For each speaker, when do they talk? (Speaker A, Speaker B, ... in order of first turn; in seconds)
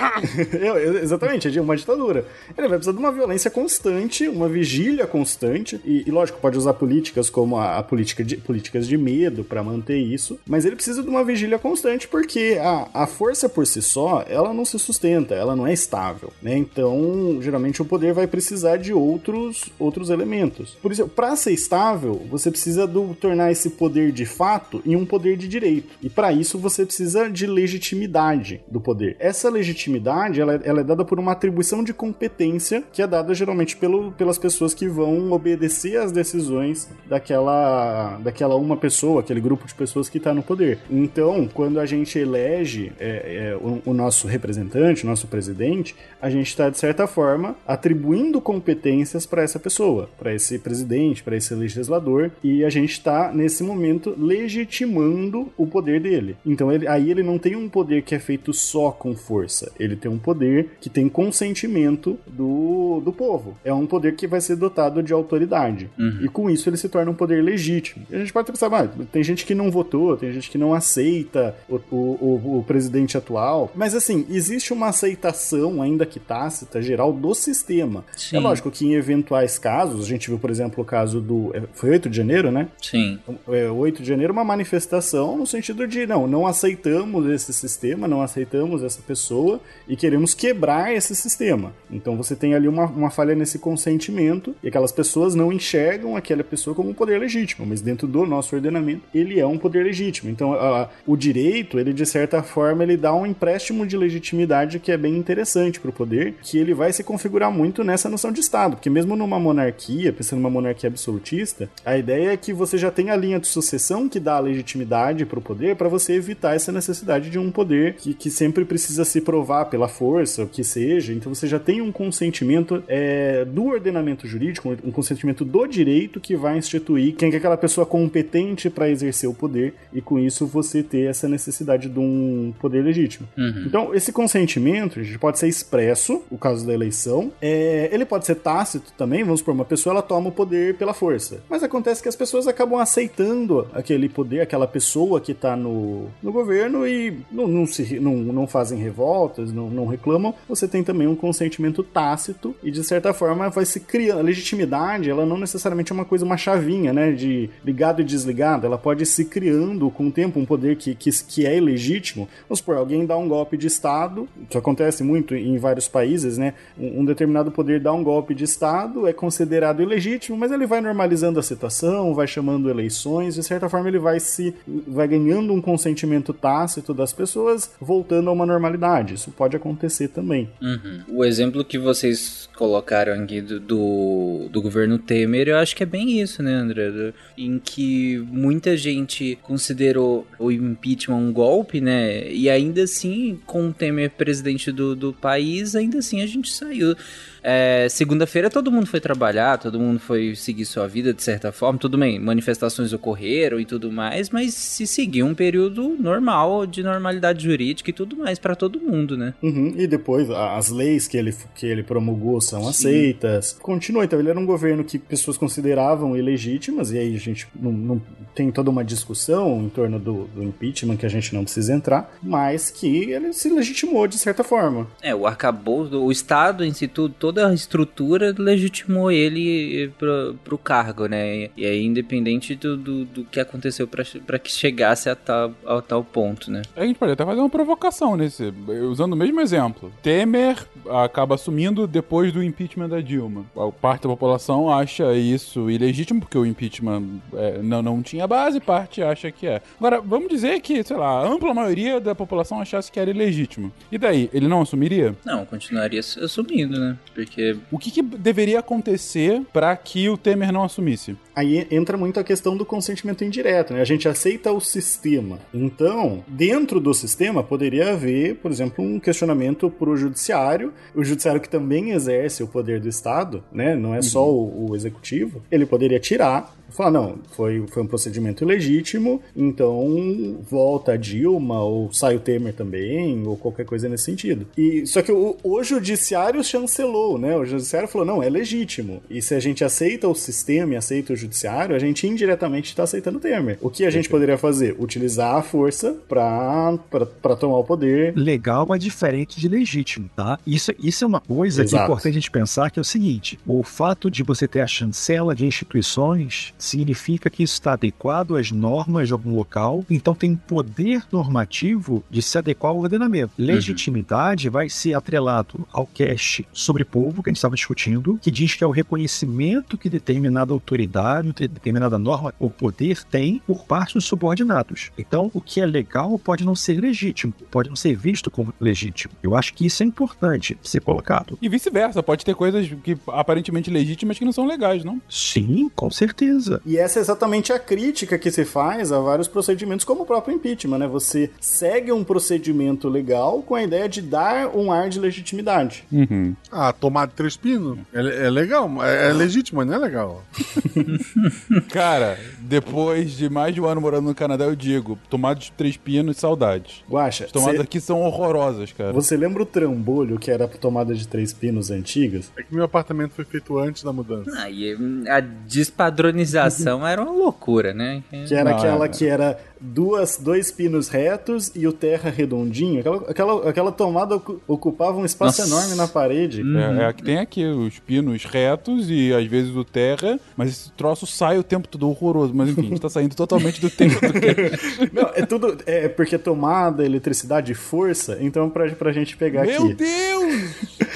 Speaker A: 0.2-82.7, 83.3-180.5, 209.4-224.9, 261.4-298.2, 301.5-302.1, 336.6-345.8, 350.6-351.0, 356.9-357.6, 358.9-362.3, 368.3-376.5, 383.9-389.8
Speaker B: 66.0-66.3, 78.2-78.6, 82.8-83.2, 133.4-133.8, 180.6-209.4, 212.6-213.1, 225.0-236.7, 255.2-257.6, 313.5-313.8, 364.3-368.4, 375.2-375.9, 376.4-376.9
Speaker C: 236.8-255.2, 257.7-261.2, 274.0-274.3, 331.4-335.0, 345.9-346.4, 351.7-359.0, 368.4-369.1, 376.5-384.9, 389.3-390.7
Speaker D: 293.9-294.2, 298.1-331.4, 335.1-336.6
Speaker E: 346.5-350.3, 362.4-364.3